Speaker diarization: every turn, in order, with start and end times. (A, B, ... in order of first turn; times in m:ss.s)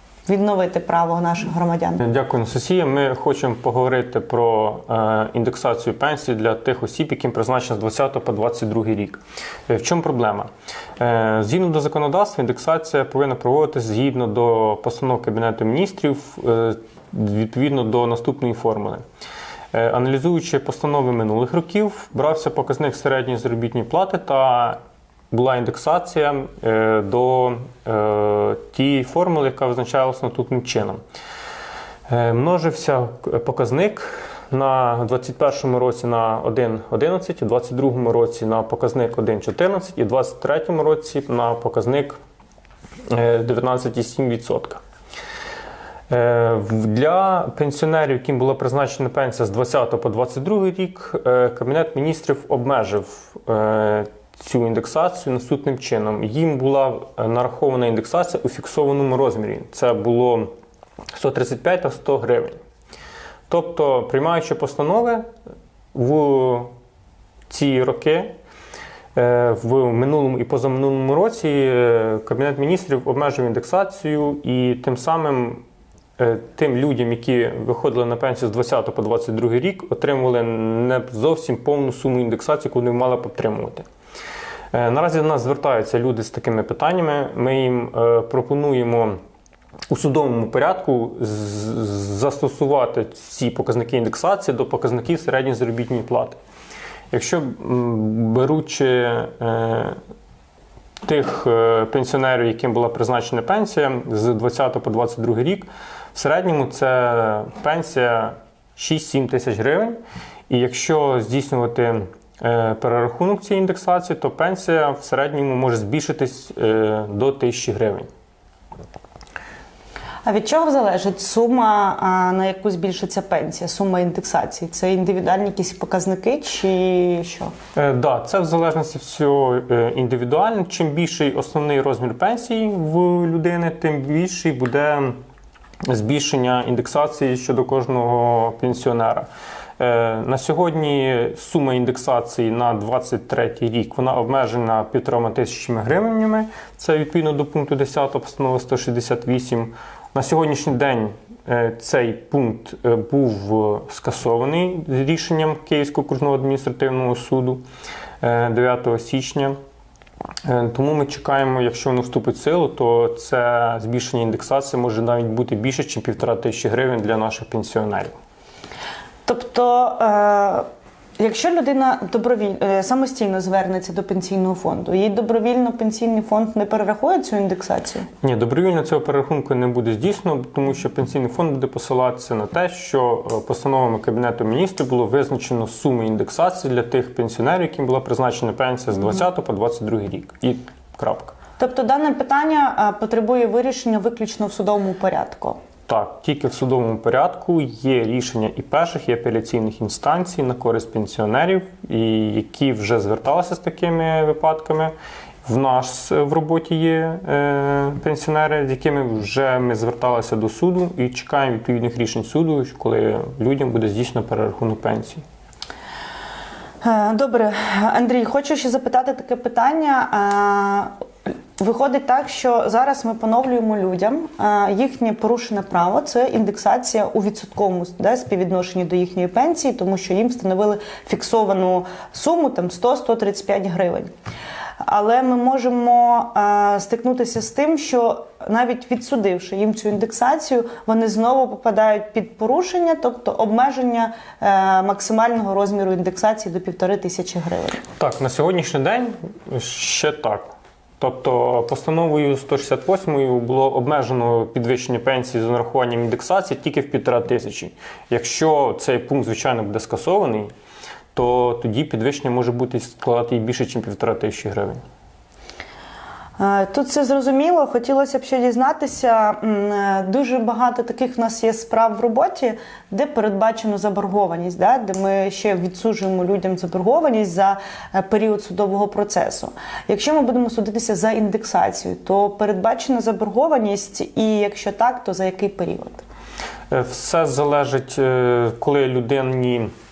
0:00.2-0:02.0 A
0:02.0-0:19.0 B
0:19.7-0:24.8 B
0:25.3-0:31.0 B
0:32.1-0:42.2 B
0:43.1-0:44.8 B
0:46.1-1:00.5 B
1:01.1-1:02.6 B
1:03.5-1:05.3 B
1:05.9-1:06.7 B
1:07.5-1:08.3 B
1:09.1-1:15.6 B
1:16.2-1:23.8 B
1:24.7-1:29.2 B
1:29.9-1:36.4 B
1:37.1-1:40.0 B
1:41.0-1:50.0 B
1:50.5-1:58.1 B
2:00.2-2:07.5 A
2:07.7-2:15.2 B
2:15.8-2:37.6 B
2:38.2-2:39.6 B
2:40.4-2:48.2 B
2:49.2-2:50.6 A
2:51.2-2:58.1 A
2:58.2-3:11.3 B
3:11.6-3:15.6 A
3:15.9-3:24.9 B
3:25.4-3:35.2 B
3:36.8-3:40.9 A
3:41.6-3:54.1 A
3:54.8-4:07.8 A
4:08.0-4:20.5 B
4:21.1-4:24.8 B
4:26.4-4:46.0 A
4:46.7-4:49.7 B